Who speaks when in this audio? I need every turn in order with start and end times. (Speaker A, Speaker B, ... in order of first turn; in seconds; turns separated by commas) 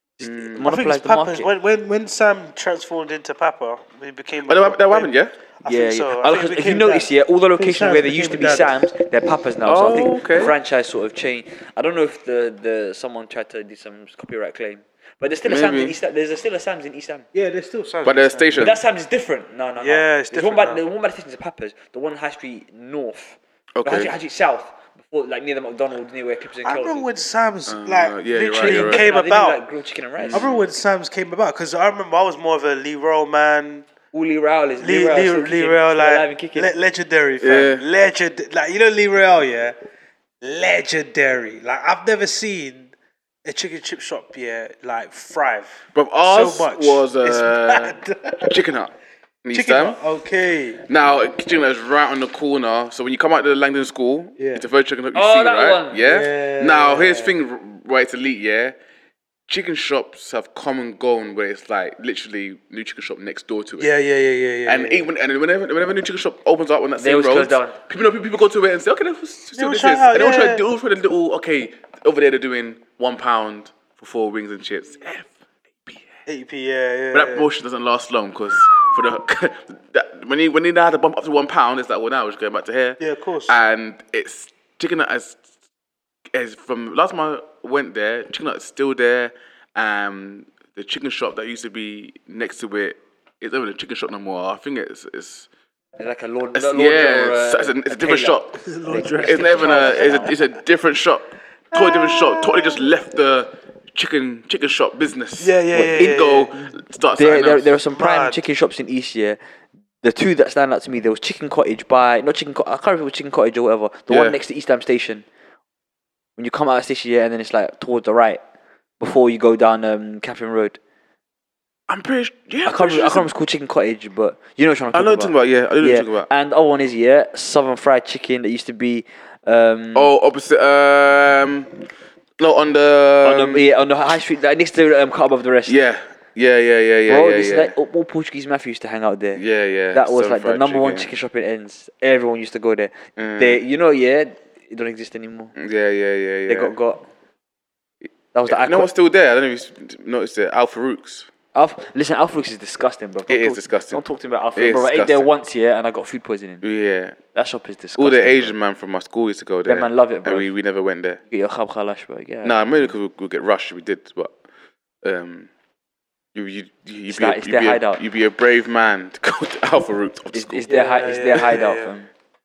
Speaker A: 0.2-1.5, Speaker B: 0.2-0.7, Speaker C: 0.6-8.8, Speaker B: 4.5-5.3, Speaker A: 5.7-17.2, Speaker B: 9.6-10.5, Speaker B: 15.5-15.9, Speaker C: 17.3-18.7, Speaker B: 18.0-18.7, Speaker A: 18.6-27.1, Speaker C: 19.8-20.8, Speaker B: 23.8-24.1, Speaker C: 26.6-29.6, Speaker B: 27.7-29.1, Speaker A: 28.6-30.5, Speaker B: 30.2-30.6, Speaker C: 30.3-33.9, Speaker A: 34.1-36.7, Speaker C: 34.8-39.8, Speaker B: 37.4-37.8, Speaker C: 40.4-42.9, Speaker C: 43.4-48.6, Speaker B: 45.9-48.9, Speaker B: 49.4-50.0, Speaker C: 49.5-50.8, Speaker B: 50.8-58.7, Speaker C: 54.4-54.6, Speaker A: 55.1-56.0, Speaker C: 56.0-57.3, Speaker B: 59.5-63.9, Speaker C: 63.8-65.1, Speaker B: 64.6-75.3, Speaker A: 67.0-67.8, Speaker C: 69.5-70.6, Speaker C: 76.2-77.5, Speaker B: 77.1-85.4, Speaker C: 83.0-83.6, Speaker B: 86.3-95.5, Speaker A: 96.0-100.3, Speaker B: 96.5-98.5, Speaker C: 98.5-100.4, Speaker B: 99.2-107.7, Speaker C: 101.7-102.9, Speaker C: 105.4-106.5, Speaker A: 105.7-106.3, Speaker A: 107.1-109.4, Speaker C: 107.9-108.4, Speaker A: 110.0-115.2, Speaker B: 114.1-114.4, Speaker A: 116.4-118.4, Speaker A: 119.0-120.8, Speaker B: 121.9-123.3, Speaker A: 122.6-130.1, Speaker B: 124.9-126.3, Speaker B: 129.9-131.7, Speaker B: 132.4-133.6, Speaker A: 133.2-135.8, Speaker B: 135.7-137.7, Speaker A: 137.1-145.5, Speaker B: 139.3-141.1, Speaker B: 143.2-143.6, Speaker B: 145.6-146.7, Speaker A: 146.5-147.1, Speaker B: 148.0-151.3, Speaker A: 148.3-148.9, Speaker A: 151.5-156.6, Speaker B: 153.3-154.0, Speaker B: 154.6-155.3, Speaker B: 156.6-157.2, Speaker A: 157.3-158.5, Speaker B: 158.0-161.2, Speaker A: 159.7-160.5, Speaker A: 161.3-162.9, Speaker B: 162.4-164.3, Speaker B: 165.0-165.5, Speaker B: 166.3-170.7, Speaker A: 167.1-168.0, Speaker A: 170.3-172.1, Speaker C: 170.7-171.9